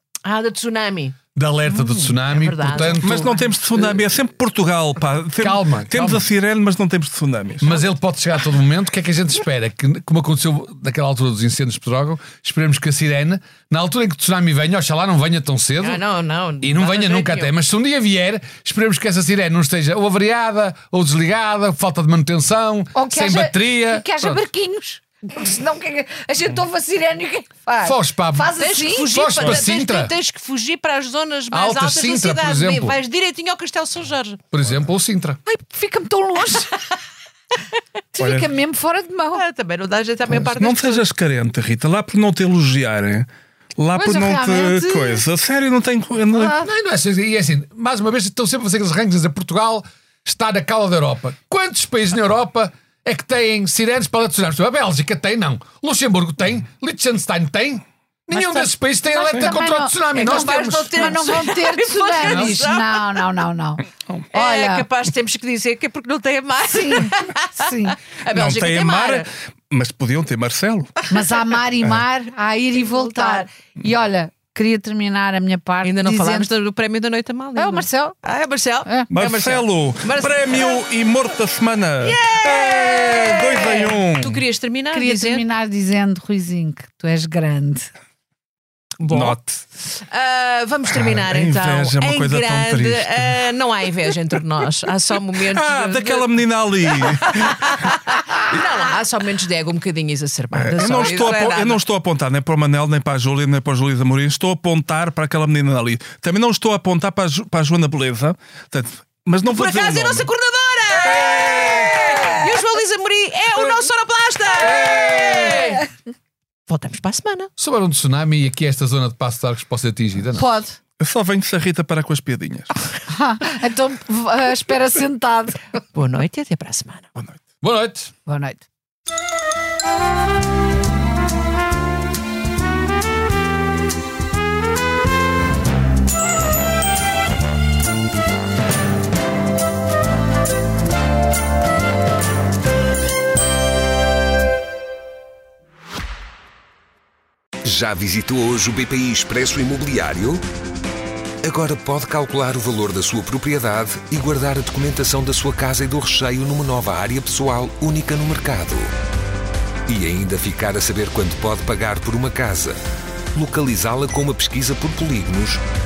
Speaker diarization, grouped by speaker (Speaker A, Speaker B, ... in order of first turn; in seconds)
Speaker A: 0.2-1.2, 2.1-3.3, 15.8-17.5, 28.6-34.4, 39.3-41.1, 60.1-63.2, 64.3-69.3, 72.8-73.5, 75.8-80.8, 82.0-85.4, 89.0-101.8, 109.4-115.9, 116.7-117.5, 125.9-127.1
Speaker B: 1.3-3.4, 5.4-6.3, 7.6-16.0, 16.6-24.4, 27.8-30.1, 31.5-33.0, 34.5-35.4, 46.6-61.2, 62.2-62.6, 114.9-115.2, 117.6-120.5, 127.6-128.1
Speaker C: 1.7-2.1, 22.9-29.1, 35.5-36.8, 38.1-39.4, 43.9-45.2, 46.3-46.7, 58.3-64.8, 66.7-68.0, 71.1-76.5, 77.5-78.2, 84.9-87.9, 120.3-120.8, 123.1-125.6, 128.2-128.6
Speaker D: 3.0-7.8, 38.2-38.5, 40.3-46.6, 68.3-70.9, 79.1-84.4, 89.0-89.6, 90.9-93.3, 95.5-97.9, 100.5-110.3, 121.0-122.7, 127.1-127.4
Speaker E: 147.6-150.4, 151.4-158.9, 159.9-162.8, 163.3-165.6